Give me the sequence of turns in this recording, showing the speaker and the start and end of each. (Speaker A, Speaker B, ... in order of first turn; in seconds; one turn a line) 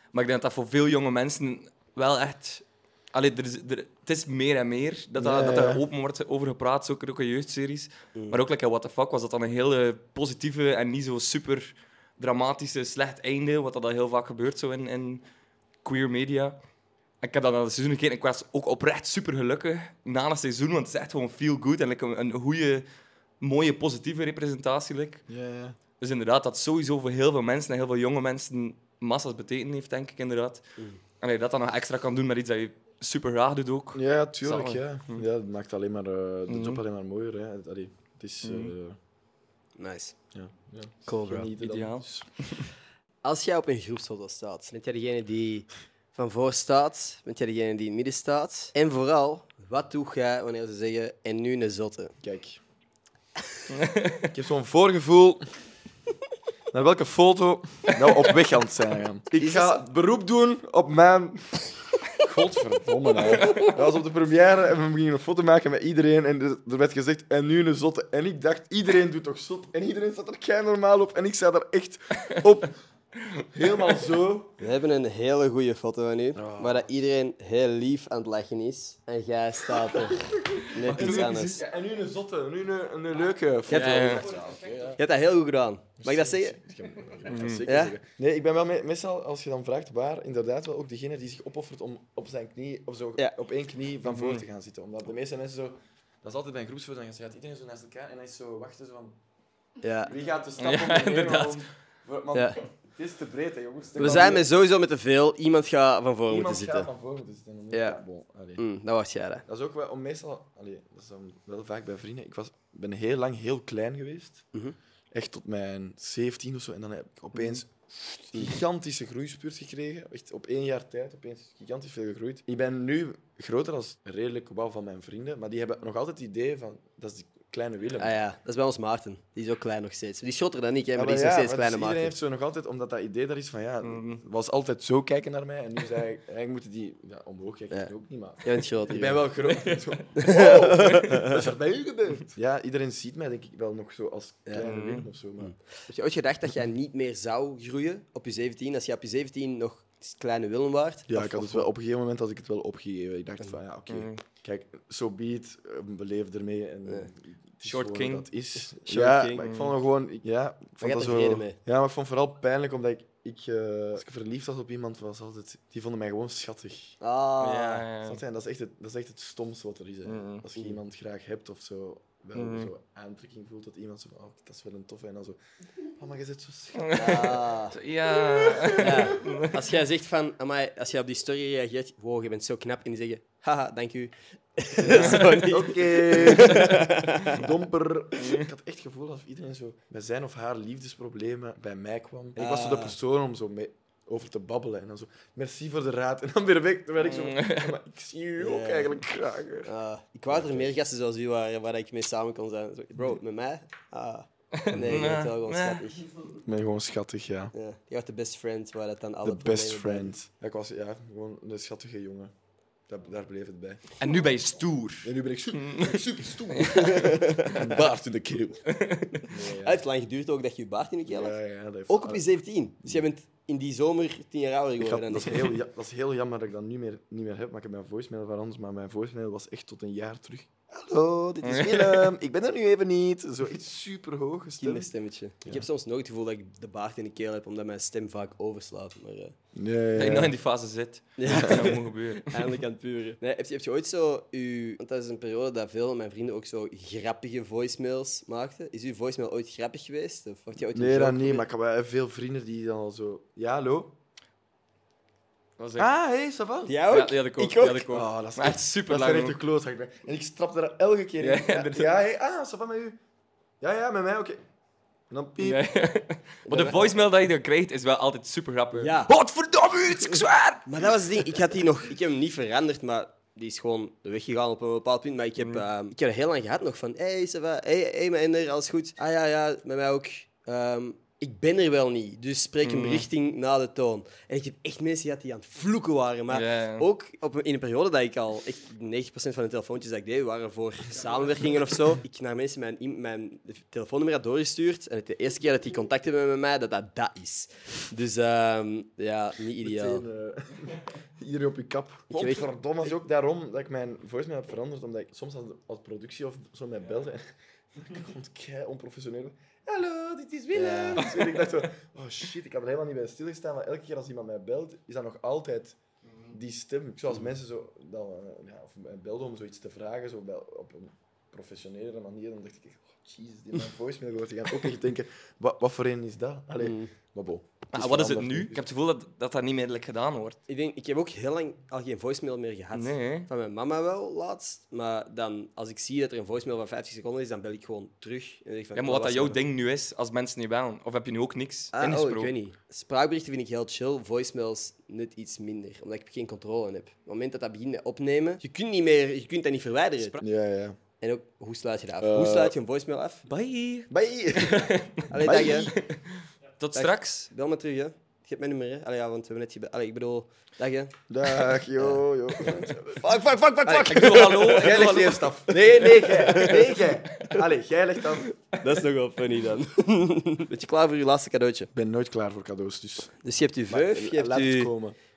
Speaker A: 0.1-15.2
Speaker B: 5.2-5.8
Speaker A: 15.8-16.6
Speaker A: 17.2-22.9
Speaker A: 23.4-25.2
Speaker B: 25.3-25.8
Speaker A: 26.0-30.6
Speaker A: 31.2-35.2
Speaker B: 33.9-39.0
Speaker A: 36.5-36.8
Speaker A: 38.4-38.7
Speaker C: 39.8-40.1
Speaker B: 40.3-42.3
Speaker C: 41.1-41.5
Speaker A: 41.6-42.7
Speaker C: 43.2-52.1
Speaker B: 52.2-52.6
Speaker A: 53.7-54.3
Speaker B: 54.3-55.5
Speaker B: 56.7-72.8
Speaker C: 59.4-59.8
Speaker A: 63.4-63.7
Speaker B: 73.5-74.6
Speaker C: 74.6-81.6
Speaker B: 76.3-76.9
Speaker B: 79.9-85.0
Speaker A: 80.8-81.6
Speaker C: 83.7-84.2
Speaker A: 83.7-84.3
Speaker C: 84.9-86.6
Speaker B: 86.0-99.2
Speaker A: 87.3-87.7
Speaker C: 87.7-87.9
Speaker A: 94.1-94.4
Speaker C: 99.8-100.1
Speaker B: 100.1-104.5
Speaker A: 100.6-101.6
Speaker C: 104.0-106.9
Speaker B: 106.3-108.6
Speaker C: 107.7-108.0
Speaker C: 108.6-109.5
Speaker B: 109.5-114.5
Speaker B: 115.1-128.1
Speaker C: 128.0-132.2
Speaker B: 131.0-145.5
Speaker A: 133.8-134.2
Speaker C: 138.4-139.3
Speaker C: 140.2-141.4
Speaker A: 144.6-145.1
Speaker C: 145.4-151.7
Speaker B: 151.1-167.0
Speaker A: 153.9-154.2
Speaker A: 157.7-158.3
Speaker C: 158.7-159.5
Speaker A: 159.4-159.7
Speaker C: 160.8-161.6
Speaker C: 167.0-167.9
Speaker A: 167.4-168.2
Speaker B: 168.0-175.4
Speaker A: 170.1-170.4
Speaker A: 172.3-172.7
Speaker B: 176.0-177.3
Speaker A: 176.8-179.5
Speaker C: 176.9-177.8
Speaker B: 178.3-178.9
Speaker C: 178.7-187.5
Speaker B: 184.8-199.7
Speaker A: 184.9-185.2
Speaker A: 188.2-188.5
Speaker C: 192.4-193.0
Speaker A: 197.1-197.8
Speaker C: 198.4-199.0
Speaker C: 199.7-206.1
Speaker B: 200.3-200.7
Speaker A: 204.5-205.8
Speaker B: 204.7-205.1
Speaker B: 206.4-207.5
Speaker C: 207.5-210.1
Speaker B: 209.2-212.3
Speaker B: 212.9-213.9
Speaker A: 214.0-216.9
Speaker B: 215.0-218.7
Speaker C: 216.7-217.8
Speaker A: 218.7-219.2
Speaker C: 219.2-221.4
Speaker B: 219.3-219.8
Speaker B: 221.1-222.2
Speaker C: 221.9-225.5
Speaker B: 224.8-234.9
Speaker A: 231.4-232.1
Speaker C: 234.6-239.3
Speaker B: 239.6-240.3
Speaker A: 240.0-242.5
Speaker C: 241.2-251.5
Speaker B: 241.3-241.7
Speaker B: 250.7-254.0
Speaker A: 255.6-255.9
Speaker B: 255.8-256.8
Speaker C: 256.7-257.9
Speaker A: 256.9-259.4
Speaker B: 257.9-263.0
Speaker A: 261.2-261.9
Speaker B: 263.6-264.4
Speaker B: 265.1-265.6
Speaker A: 265.4-270.9
Speaker C: 266.5-266.9
Speaker C: 268.8-269.1
Speaker C: 270.7-300.1
Speaker A: 275.4-275.6
Speaker A: 282.6-283.1
Speaker A: 286.3-286.9
Speaker B: 299.6-315.8
Speaker C: 302.1-302.5
Speaker C: 310.6-311.1
Speaker A: 316.1-316.3
Speaker B: 316.3-328.6
Speaker C: 326.6-326.9
Speaker A: 327.7-330.4
Speaker C: 330.5-339.4
Speaker A: 332.7-333.3
Speaker A: 338.8-342.3
Speaker C: 341.7-350.2
Speaker B: 350.2-350.8
Speaker C: 351.0-353.2
Speaker B: 352.0-352.6
Speaker A: 353.3-357.3
Speaker B: 353.9-355.8
Speaker C: 355.1-355.7
Speaker C: 356.8-365.1
Speaker B: 361.1-363.0
Speaker A: 363.7-365.4
Speaker B: 363.7-368.3
Speaker C: 365.7-367.4
Speaker C: 368.3-371.7
Speaker B: 371.7-373.1
Speaker C: 373.2-374.7
Speaker B: 373.7-375.0